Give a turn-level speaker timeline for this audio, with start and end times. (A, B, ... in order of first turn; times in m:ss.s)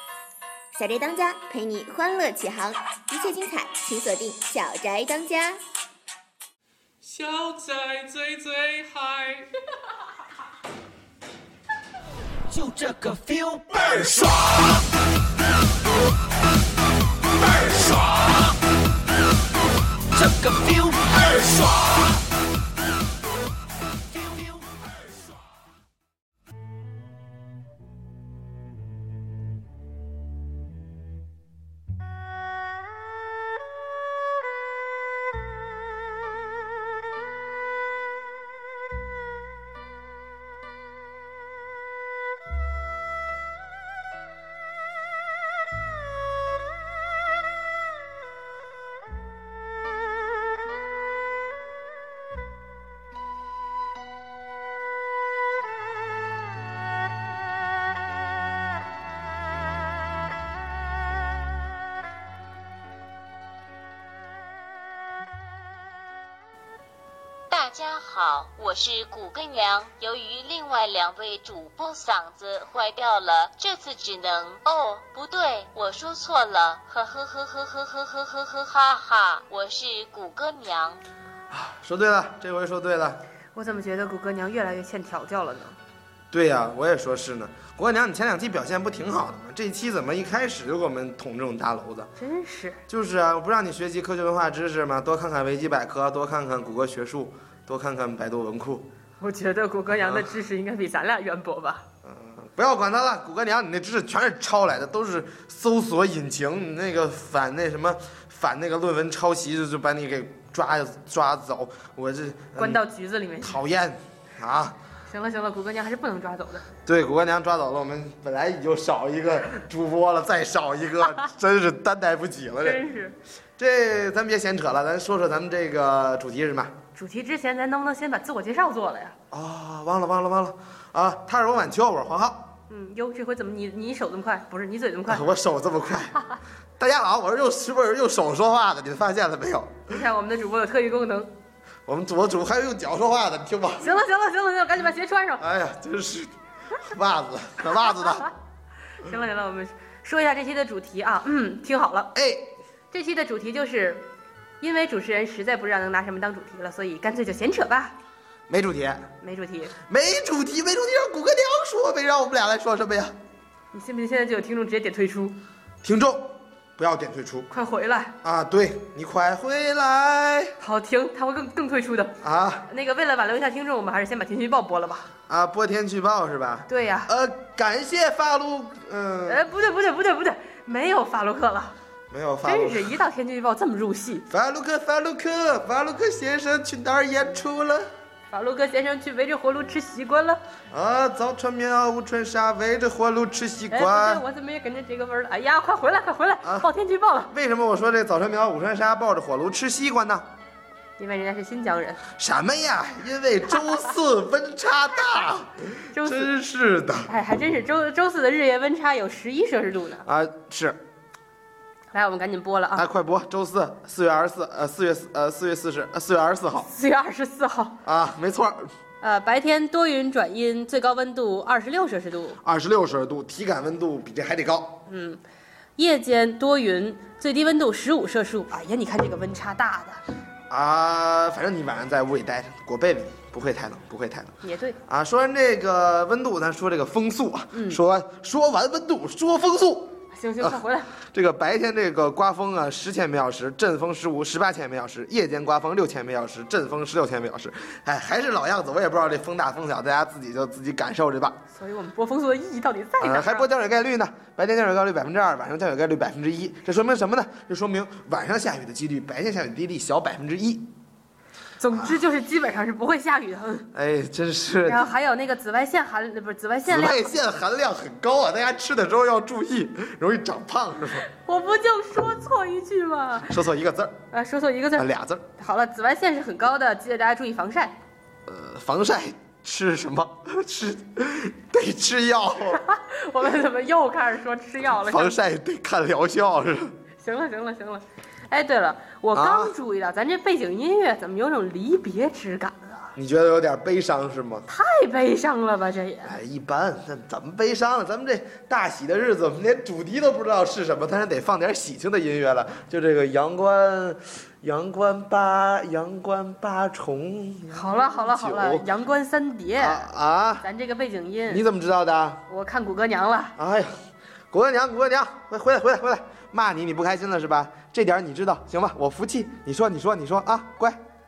0:00.7-0:05.6 A
0:07.0-0:09.5 B
0:12.5-0:13.9 C
0:20.2-0:21.3 C
1:07.5-1:21.0 D
1:21.5-1:23.2 E
1:23.5-1:25.8 F
1:26.3-1:32.1 E
1:32.2-1:32.8 F
1:32.9-1:38.8 E
1:39.2-1:41.8 F
1:39.9-1:40.3 E
1:42.0-1:52.8 E
1:52.6-1:53.6 F
1:53.4-1:54.8 E
1:55.1-1:56.6 F
1:56.8-2:02.8 E
2:02.6-2:03.2 F
2:03.6-2:06.7 E
2:06.9-2:09.1 F
2:09.3-2:12.5 E
2:12.7-2:15.3 F
2:15.1-2:16.2 E
2:16.8-2:19.9 E
2:19.9-2:21.3 F
2:21.8-2:24.0 E
2:23.8-2:25.4 F
2:25.4-2:28.3 E
2:29.0-2:32.1 F
2:32.1-2:32.5 E
2:32.9-2:34.1 F
2:34.6-2:37.9 F
2:38.5-2:39.1 E
2:39.2-2:39.7 F
2:39.9-2:43.1 E
2:43.7-2:45.4 F
2:45.8-2:47.5 E
2:47.5-2:48.1 F
2:48.2-2:50.5 E
2:50.6-2:52.2 F
2:52.2-2:52.7 E
2:52.7-2:55.1 F
2:55.3-2:59.4 E
2:56.7-2:57.1 F
2:59.3-3:01.7 F
3:02.1-3:03.0 E
3:02.4-3:04.2 F
3:04.3-3:07.9 E
3:08.3-3:10.4 F
3:10.7-3:14.2 E
3:13.7-3:17.3 F
3:16.4-3:16.7 E
3:17.3-3:20.3 E
3:21.0-3:22.0 F
3:22.2-3:27.1 E
3:25.9-3:26.3 F
3:27.1-3:30.0 F
3:30.0-3:30.8 E
3:31.9-3:32.8 F
3:32.8-3:36.7 E
3:36.6-3:37.8 F
3:37.8-3:38.7 E
3:39.0-3:42.4 F
3:42.4-3:44.8 E
3:44.9-3:45.2 F
3:45.8-3:50.0 F
3:50.5-3:54.3 E
3:54.4-3:54.8 F
3:54.9-4:00.6 E
3:57.5-3:57.8 F
4:00.1-4:00.9 F
4:01.1-4:11.4 E
4:11.5-4:13.5 F
4:13.0-4:20.7 E
4:21.6-4:23.7 F
4:21.7-4:22.0 E
4:23.7-4:24.9 E
4:24.6-4:27.2 F
4:26.6-4:31.1 E
4:31.1-4:33.3 F
4:33.3-4:34.0 E
4:34.1-4:37.8 F
4:34.8-4:35.2 E
4:38.3-4:42.6 E
4:42.5-4:45.2 F
4:44.7-4:46.7 E
4:47.0-4:52.9 F
4:49.1-4:49.6 E
4:53.0-4:54.4 E
4:54.5-4:56.2 F
4:56.0-5:08.7 E
5:07.5-5:09.9 F
5:09.6-5:10.4 E
5:10.4-5:11.4 F
5:11.3-5:12.2 E
5:12.3-5:13.3 F
5:13.4-5:13.7 E
5:14.3-5:20.8 E